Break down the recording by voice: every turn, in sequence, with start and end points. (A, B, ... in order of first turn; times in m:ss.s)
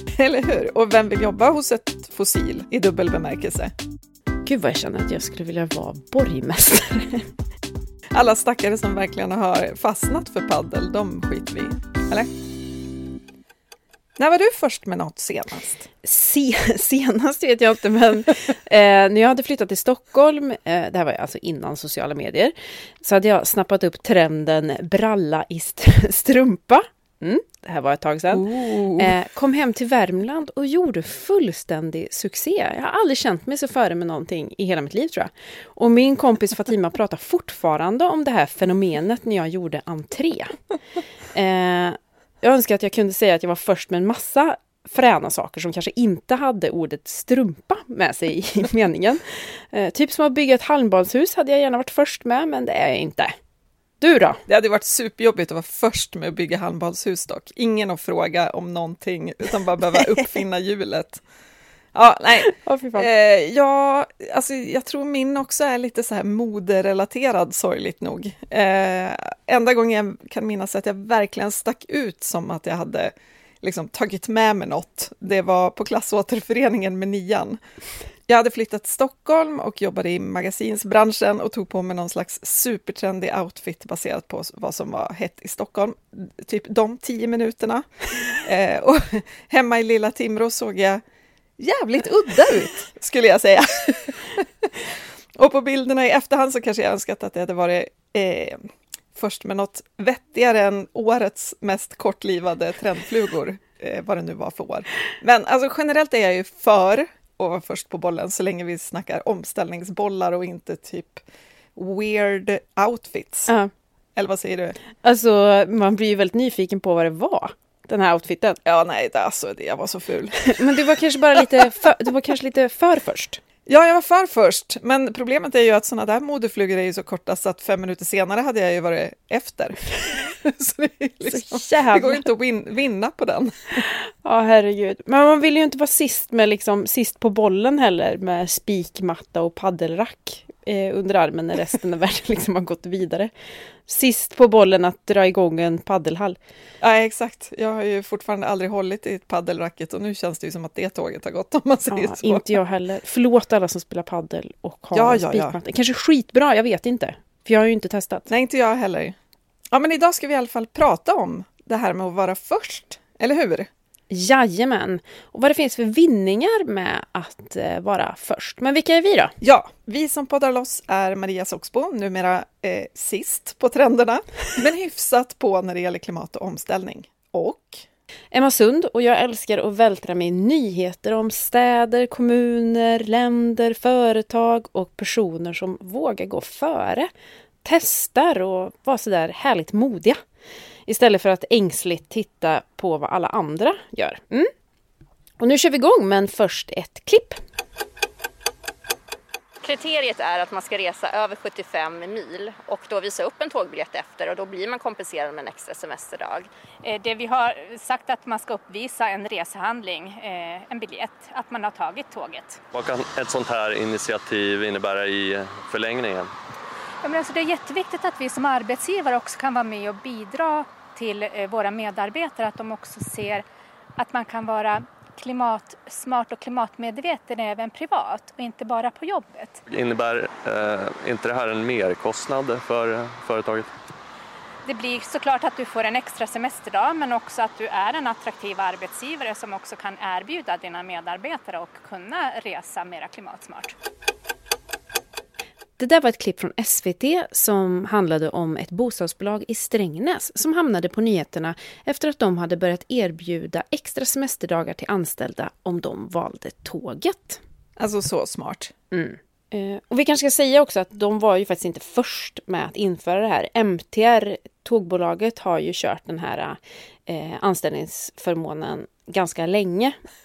0:00.2-0:03.7 A
0:04.4-0:07.3 B
0:08.1-0:12.3 A
0:14.2-0:15.9 A
0:16.0-0:40.6 B
0:28.3-0:29.1 A
0:41.3-0:53.4 B
0:54.0-0:54.4 B
0:54.5-1:01.2 A
1:01.9-1:17.6 A
1:02.5-1:03.1 B
1:18.3-1:31.0 A
1:31.6-1:38.6 A
1:39.2-1:51.2 A
1:51.8-1:53.5 A
1:54.2-1:54.8 A
1:55.0-1:58.6 B
1:58.6-2:01.5 A
2:00.5-2:03.4 B
2:03.7-2:13.8 A
2:11.3-2:12.3 B
2:13.9-2:23.3 B
2:23.9-2:26.4 B
2:26.8-2:32.6 A
2:31.9-2:38.3 B
2:34.9-2:35.6 A
2:38.3-2:39.2 A
2:39.7-2:43.7 A
2:44.1-2:49.3 B
2:49.4-2:57.8 A
2:58.3-3:07.1 B
3:07.6-3:10.2 B
3:10.9-3:14.5 B
3:15.4-3:17.4 B
3:19.6-3:26.5 C
3:26.8-3:32.6 D
3:32.7-3:36.3 E
3:37.0-3:43.4 D
3:44.0-3:49.6 D
3:49.7-3:53.7 E
3:54.6-4:03.8 D
4:05.8-4:17.4 B
4:17.8-4:18.7 A
4:18.9-4:30.0 B